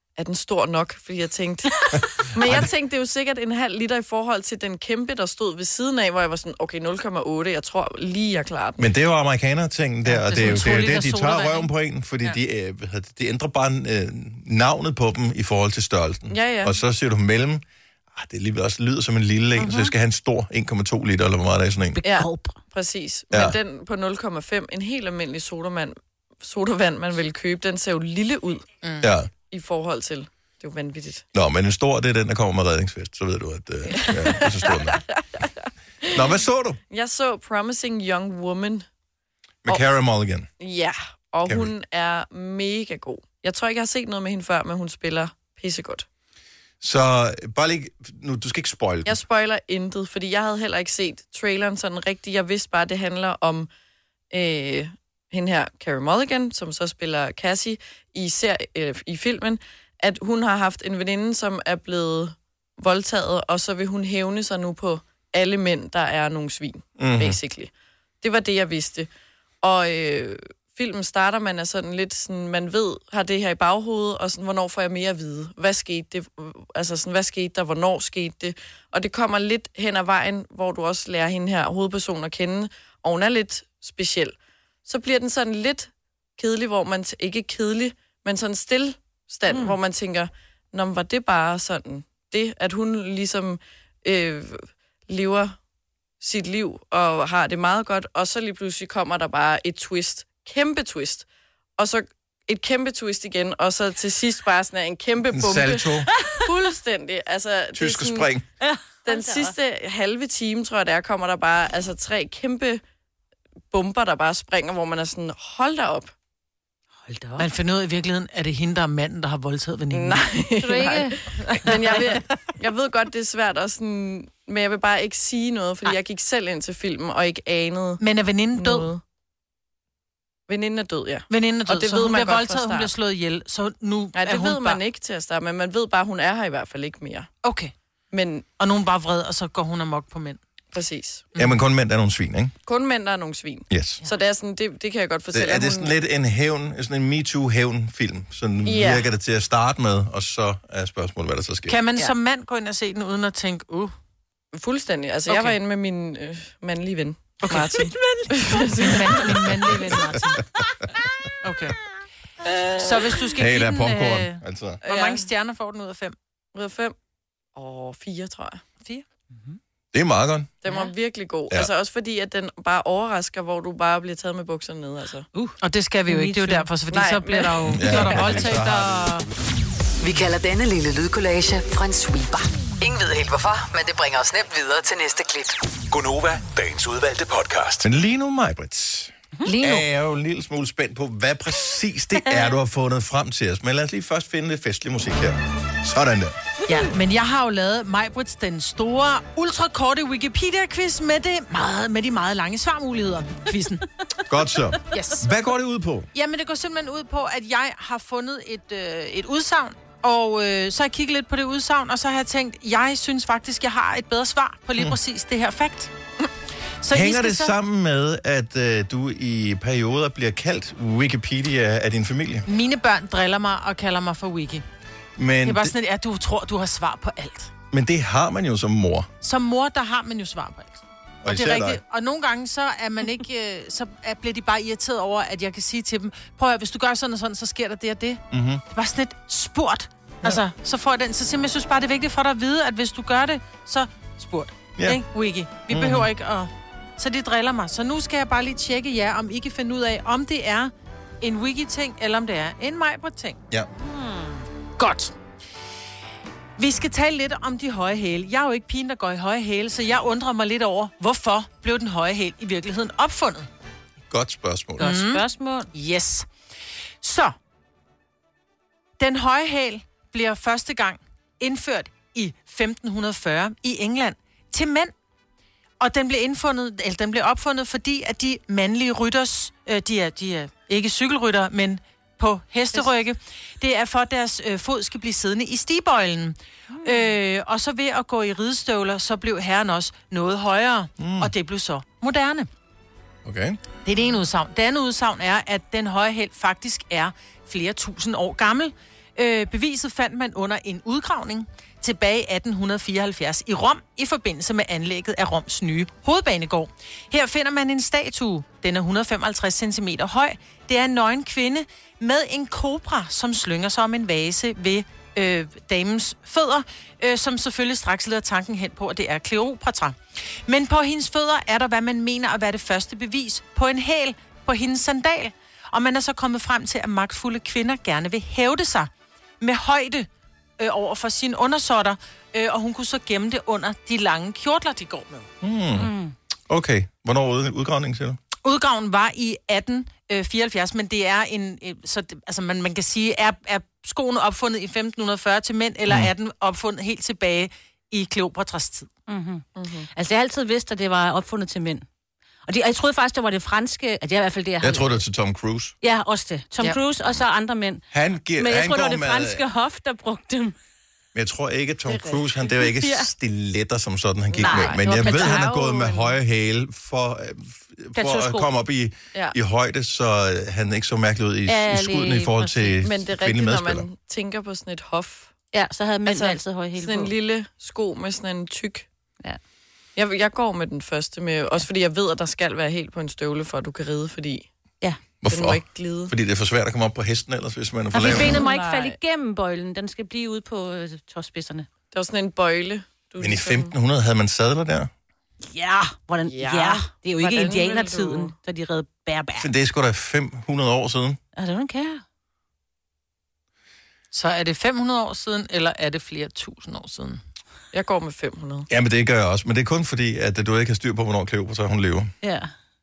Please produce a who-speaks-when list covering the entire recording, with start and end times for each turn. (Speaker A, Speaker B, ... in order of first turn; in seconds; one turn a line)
Speaker A: 0.2-8.9
Speaker B: 1.9-2.7
Speaker B: 8.8-22.0
Speaker C: 10.0-12.3
Speaker A: 16.3-16.7
Speaker D: 19.6-19.9
Speaker D: 21.9-22.6
Speaker A: 22.0-28.6
Speaker B: 23.3-23.6
Speaker C: 28.8-29.1
Speaker B: 29.0-29.3
Speaker A: 29.5-31.2
Speaker B: 31.3-35.0
Speaker A: 33.9-35.5
Speaker A: 36.0-36.4
Speaker B: 36.1-36.8
Speaker A: 36.9-38.9
Speaker B: 39.6-40.5
Speaker A: 40.6-46.0
Speaker B: 41.5-41.7
Speaker B: 46.8-49.2
Speaker A: 49.0-53.7
Speaker A: 54.3-69.1
Speaker B: 67.0-67.4
Speaker A: 69.6-95.6
Speaker D: 89.5-89.8
Speaker A: 96.2-101.2
Speaker A: 101.8-105.9
Speaker B: 105.3-106.1
Speaker A: 106.4-108.3
Speaker B: 107.7-108.4
Speaker D: 108.6-109.5
Speaker A: 109.0-112.8
Speaker A: 113.7-116.1
Speaker D: 117.0-117.5
Speaker C: 117.4-120.2
Speaker A: 119.9-128.0
Speaker D: 120.6-122.0
Speaker C: 128.0-128.9
Speaker A: 128.5-129.0
Speaker A: 130.5-132.9
Speaker C: 131.3-134.8
Speaker A: 134.1-137.3
Speaker C: 137.4-137.7
Speaker A: 138.1-138.4
Speaker C: 138.6-140.4
Speaker A: 140.7-141.3
Speaker C: 141.3-141.6
Speaker B: 141.3-142.5
Speaker A: 142.7-145.9
Speaker B: 143.7-144.0
Speaker B: 145.3-151.8
Speaker A: 148.6-149.1
Speaker C: 151.7-153.9
Speaker A: 154.5-159.7
Speaker C: 155.3-155.6
Speaker C: 157.4-160.5
Speaker C: 161.4-161.8
Speaker C: 162.7-166.1
Speaker B: 163.3-164.8
Speaker A: 164.8-165.2
Speaker A: 166.5-166.9
Speaker A: 167.5-168.6
Speaker B: 169.9-170.5
Speaker A: 170.6-175.3
Speaker D: 175.3-176.7
Speaker C: 175.6-179.3
Speaker A: 176.9-178.4
Speaker B: 177.7-179.3
Speaker E: 180.0-185.6
Speaker F: 185.9-187.9
Speaker B: 187.8-196.3
Speaker D: 189.4-189.8
Speaker C: 196.7-203.9
Speaker B: 204.3-206.1
Speaker C: 204.9-205.3
Speaker C: 206.1-215.9
Speaker C: 216.8-217.5
Speaker B: 216.9-222.4
Speaker C: 222.4-224.6
Speaker B: 225.2-225.7
Speaker C: 225.4-227.5
Speaker B: 227.7-229.1
Speaker C: 229.2-253.4
Speaker B: 231.2-231.8
Speaker B: 238.3-238.6
Speaker B: 244.8-245.0
Speaker B: 245.7-246.1
Speaker D: 253.8-254.4
Speaker C: 254.8-255.1
Speaker C: 256.6-263.5
Speaker B: 264.1-264.9
Speaker D: 264.8-265.7
Speaker C: 264.8-266.3
Speaker C: 267.0-267.3
Speaker C: 269.0-274.9
Speaker C: 275.8-292.5
Speaker D: 286.7-287.1
Speaker B: 291.0-291.3
Speaker B: 293.2-293.6
Speaker C: 293.8-335.2
Speaker B: 335.4-335.9
Speaker D: 335.8-336.1
Speaker B: 336.5-338.2
Speaker C: 338.4-348.9
Speaker D: 349.1-351.9
Speaker A: 349.6-349.9
Speaker D: 352.5-355.0
Speaker B: 354.6-355.7
Speaker D: 355.8-357.8
Speaker B: 357.9-359.4
Speaker D: 358.4-360.5
Speaker B: 361.1-373.9
Speaker D: 362.5-363.1
Speaker A: 364.3-366.0
Speaker D: 364.4-365.8
Speaker D: 367.9-368.5
Speaker D: 371.5-372.8
Speaker A: 372.8-375.3
Speaker D: 375.5-377.1
Speaker A: 376.1-378.9
Speaker A: 379.9-384.5
Speaker B: 385.2-388.4
Speaker A: 385.3-386.1
Speaker D: 387.9-391.7
Speaker A: 388.0-389.0
Speaker A: 391.9-393.7
Speaker B: 393.2-394.9
Speaker D: 395.4-399.5
Speaker A: 396.2-398.3
Speaker B: 399.4-401.2
Speaker D: 401.4-402.0
Speaker C: 404.1-407.2
Speaker A: 407.7-408.7
Speaker B: 408.7-412.1
Speaker D: 412.2-412.5